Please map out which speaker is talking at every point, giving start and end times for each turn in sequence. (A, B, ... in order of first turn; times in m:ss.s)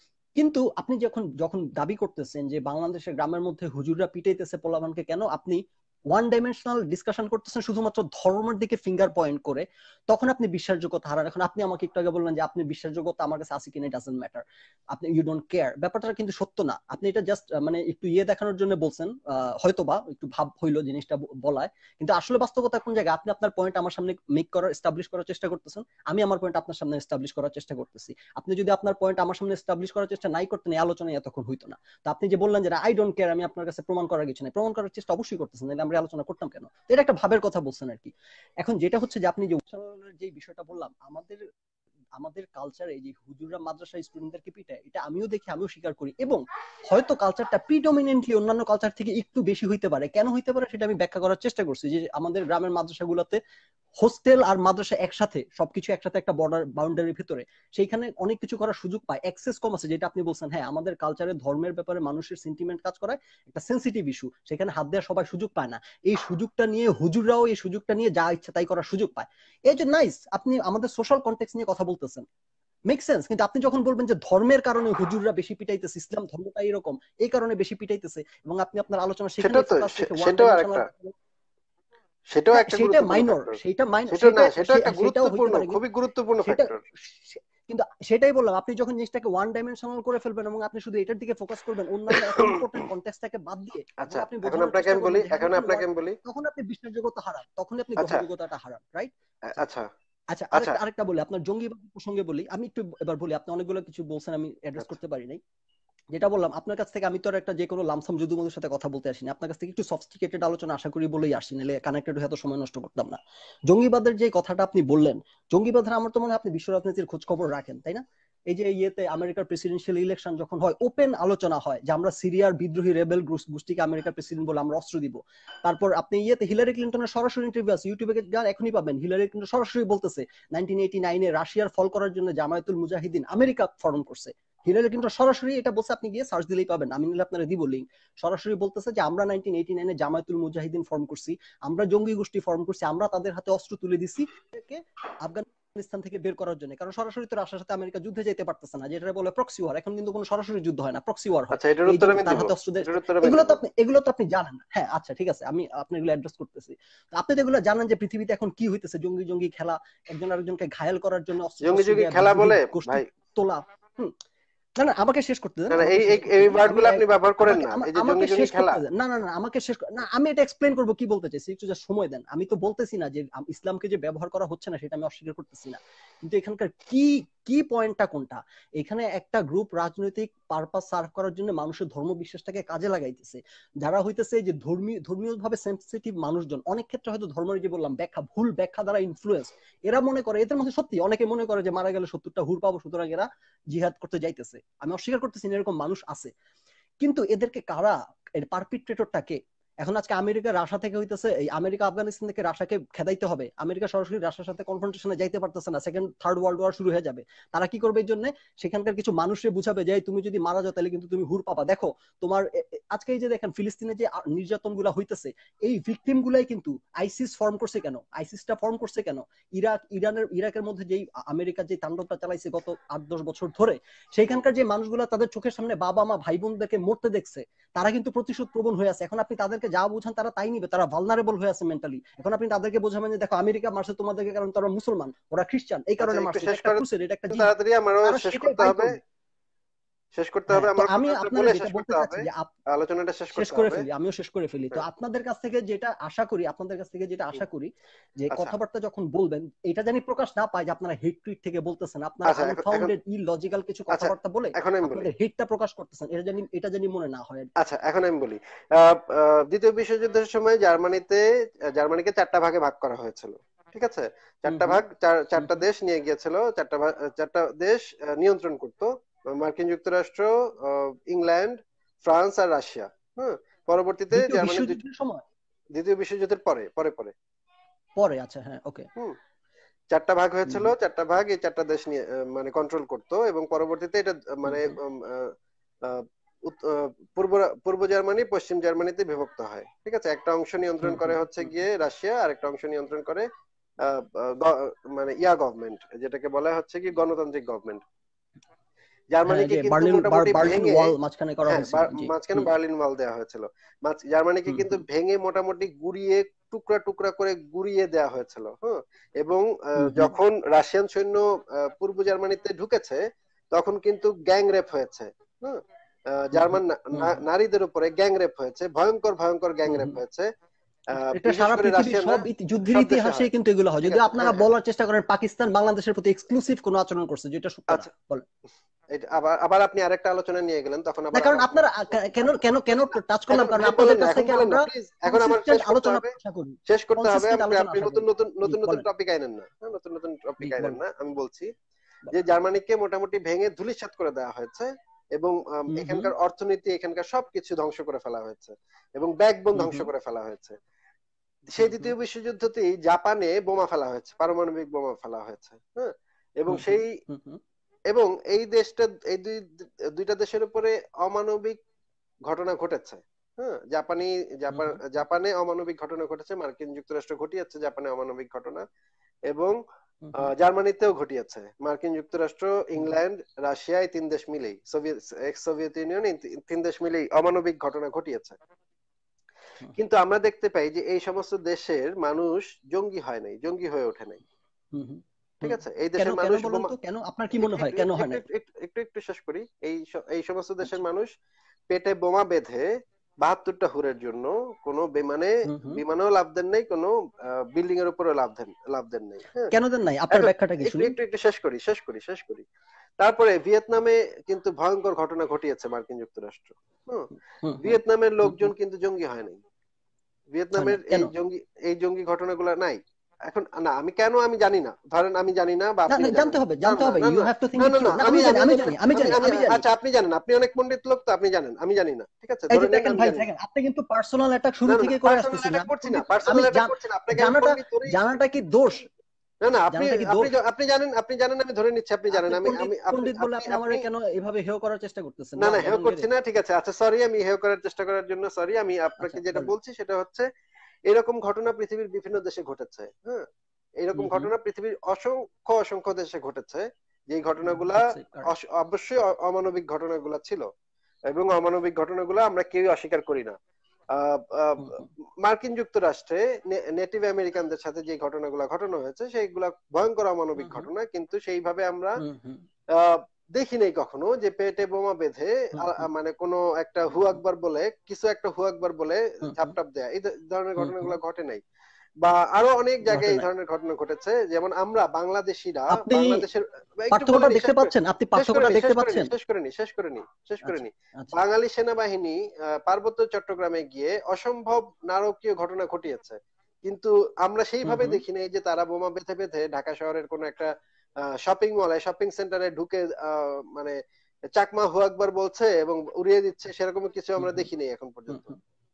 0:00.4-0:41.4 A
0:42.2-0:53.4 A
0:54.0-1:12.2 A
1:12.9-1:21.2 A
1:19.4-1:20.9 B
1:22.3-1:23.6 B
1:22.5-1:25.8 A
1:24.1-1:26.8 B
1:26.4-1:39.6 A
1:32.1-1:32.6 B
1:34.0-1:36.2 B
1:38.0-1:38.2 B
1:39.5-1:39.9 B
1:40.3-1:45.4 A
1:40.5-1:40.8 B
1:46.1-1:53.2 A
1:53.7-2:44.1 A
2:31.5-2:33.6 B
2:41.6-2:43.0 B
2:44.8-3:16.3 A
2:45.7-2:48.8 B
3:17.0-3:57.5 A
3:56.0-3:58.9 B
3:58.0-3:59.0 A
4:00.2-4:03.9 B
4:00.5-4:02.5 A
4:03.3-4:17.5 A
4:12.2-4:12.9 B
4:13.9-4:15.1 B
4:17.6-4:34.8 B
4:24.5-4:24.8 A
4:25.4-4:25.7 A
4:34.1-4:35.2 A
4:35.8-4:37.1 B
4:38.0-4:38.9 A
4:39.9-4:45.3 B
4:40.5-4:40.7 A
4:44.4-4:44.8 A
4:45.8-4:53.3 B
4:50.8-4:51.6 A
4:53.8-4:57.8 B
4:59.1-5:00.9 B
4:59.3-5:02.5 A
5:01.5-5:13.0 B
5:04.5-5:04.8 A
5:09.8-5:10.2 A
5:13.5-5:15.6 B
5:16.1-5:20.3 B
5:16.3-5:17.2 A
5:19.7-5:20.0 A
5:20.9-5:23.3 B
5:20.9-5:28.2 A
5:23.8-5:24.5 B
5:28.9-5:32.1 B
5:31.1-5:38.8 A
5:33.3-5:36.1 B
5:36.7-5:41.5 B
5:40.4-5:40.8 A
5:42.1-5:50.6 B
5:45.7-5:46.1 A
5:49.6-5:49.9 A
5:51.5-5:57.0 B
5:51.6-5:51.9 A
5:56.5-5:57.4 A
5:57.9-6:01.6 B
6:02.3-6:08.6 B
6:04.5-6:04.8 A
6:09.3-6:09.6 B
6:10.0-6:10.3 A
6:10.2-6:18.4 B
6:19.8-6:24.2 B
6:24.7-6:28.2 A
6:25.4-6:26.7 B
6:27.3-6:31.1 B
6:31.7-6:32.7 B
6:33.2-6:39.5 B
6:35.5-6:35.8 A
6:39.5-6:41.0 A
6:40.1-6:42.5 B
6:43.0-6:49.4 B
6:47.4-6:48.5 A
6:50.3-7:03.2 B
6:50.6-6:51.1 A
6:55.9-6:59.6 A
7:02.5-7:08.9 A
7:04.7-7:08.0 B
7:09.4-7:13.8 B
7:09.7-7:10.3 A
7:12.1-7:16.1 A
7:15.4-7:20.3 B
7:19.0-7:19.5 A
7:20.9-7:23.3 B
7:23.8-7:30.5 B
7:24.0-7:24.3 A
7:27.4-7:28.3 A
7:31.1-7:33.4 B
7:33.9-7:42.0 B
7:34.6-7:34.9 A
7:40.4-7:40.7 A
7:42.0-7:42.4 A
7:42.8-7:51.4 B
7:45.5-7:45.9 A
7:49.2-7:49.5 A
7:50.6-7:51.0 A
7:52.0-8:10.5 B
7:52.8-7:53.3 A
7:55.7-7:56.2 A
7:56.9-7:59.1 A
8:00.4-8:01.2 A
8:07.6-8:08.0 A
8:11.2-8:13.8 B
8:14.4-8:18.3 B
8:17.2-8:17.5 A
8:18.1-8:18.4 A